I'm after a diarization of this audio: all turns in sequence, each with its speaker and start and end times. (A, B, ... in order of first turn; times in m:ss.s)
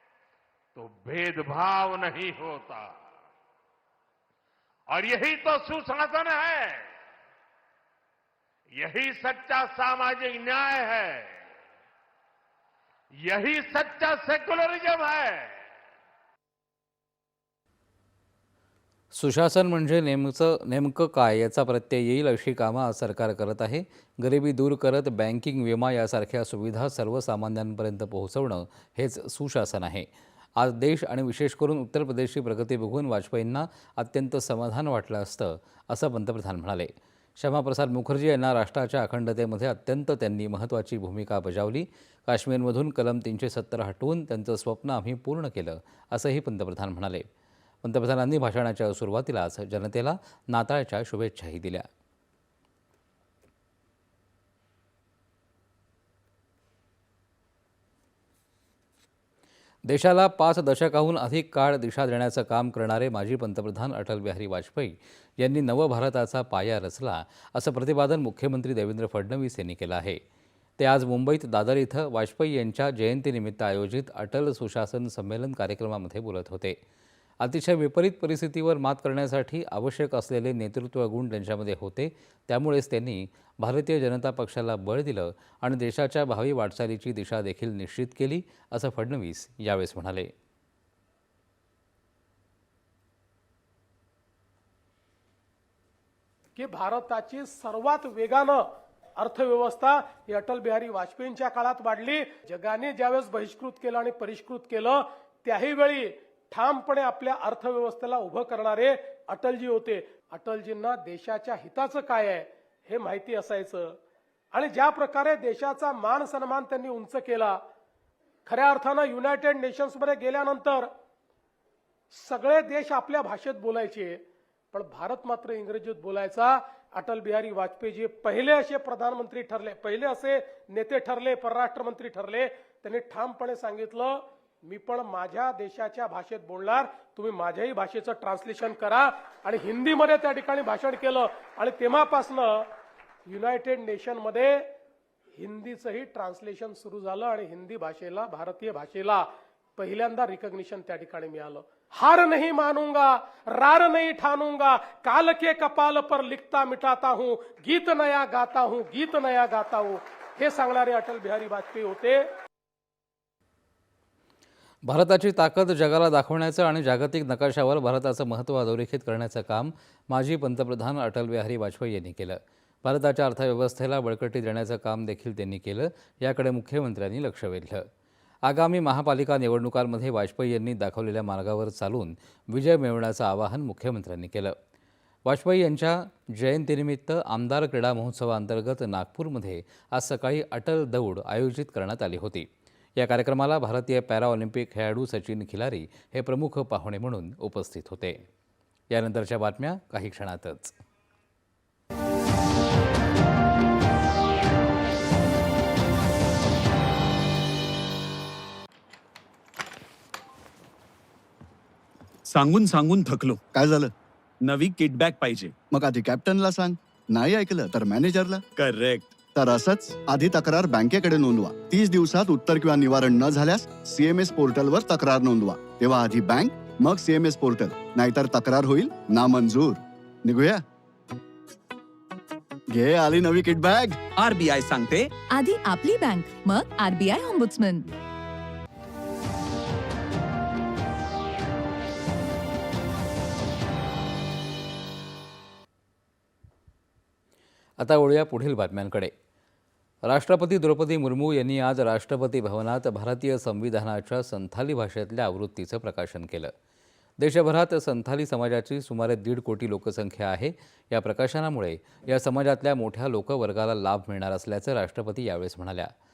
0:00.8-0:03.0 A
0:04.9-0:06.9 A
0:08.8-0:11.4 A
0:13.2-0:15.6 A
0:19.1-0:47.2 B
0:47.8-0:51.9 B
0:59.9-1:10.2 B
1:10.8-1:16.8 B
1:17.4-1:30.3 B
1:36.6-1:38.6 C
1:39.2-1:54.0 C
1:54.5-1:57.6 C
1:58.4-2:00.9 C
2:02.1-2:04.2 C
2:04.7-2:22.7 C
2:23.2-2:24.7 C
2:25.4-2:42.3 C
2:44.8-2:57.9 B
2:58.4-3:04.6 B
3:05.3-3:18.2 B
3:18.9-3:20.8 B
3:32.3-3:33.4 D
3:33.5-3:33.9 E
3:34.4-3:35.5 D
3:35.7-3:38.4 E
3:38.6-3:39.2 D
3:39.3-3:50.6 E
3:52.7-3:54.0 E
3:54.2-3:55.1 D
3:55.4-3:57.8 F
4:07.8-4:09.1 B
4:10.1-4:16.5 B
4:17.2-4:25.9 B